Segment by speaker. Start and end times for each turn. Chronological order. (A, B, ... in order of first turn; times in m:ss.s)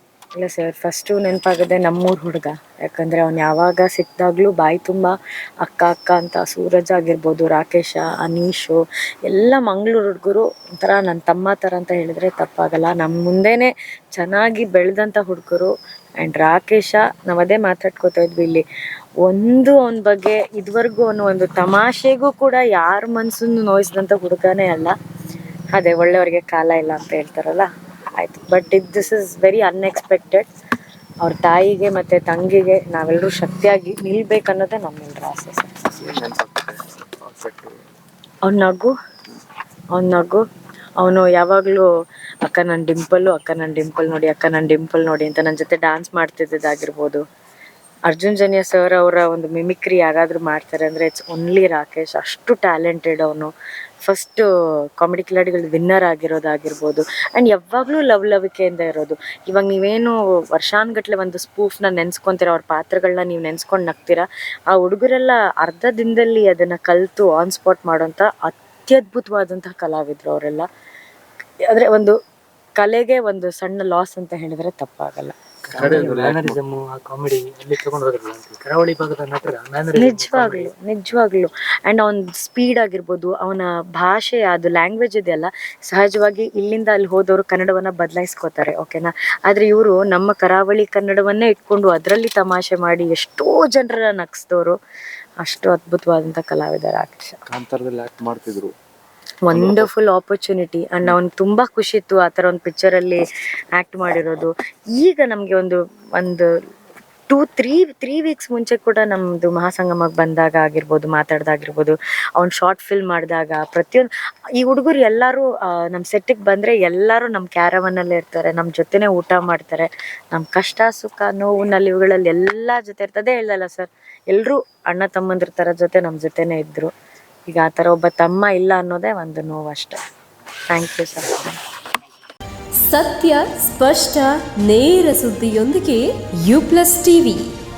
0:00.4-0:18.6 A
0:19.2-0:25.0 A
0:25.7-0:30.5 A
0:31.2-0:35.8 A
0:35.9-0:37.7 B
0:38.4-0:38.9 A
0:39.9-0:40.4 A
0:41.0-0:41.9 A
0:42.4-0:47.2 A
0:48.1-0:54.4 A
0:55.0-1:10.7 A
1:11.7-1:12.1 A
1:12.8-1:15.4 A
1:15.7-1:20.7 C
1:15.8-1:16.6 B
1:20.0-1:34.8 A
1:35.4-1:37.4 A
1:37.5-1:38.7 B
1:39.4-1:43.2 A
1:39.5-1:39.9 B
1:43.8-1:46.5 A
1:47.3-2:06.9 A
2:07.4-2:10.0 A
2:10.7-2:11.6 A
2:12.8-2:17.4 D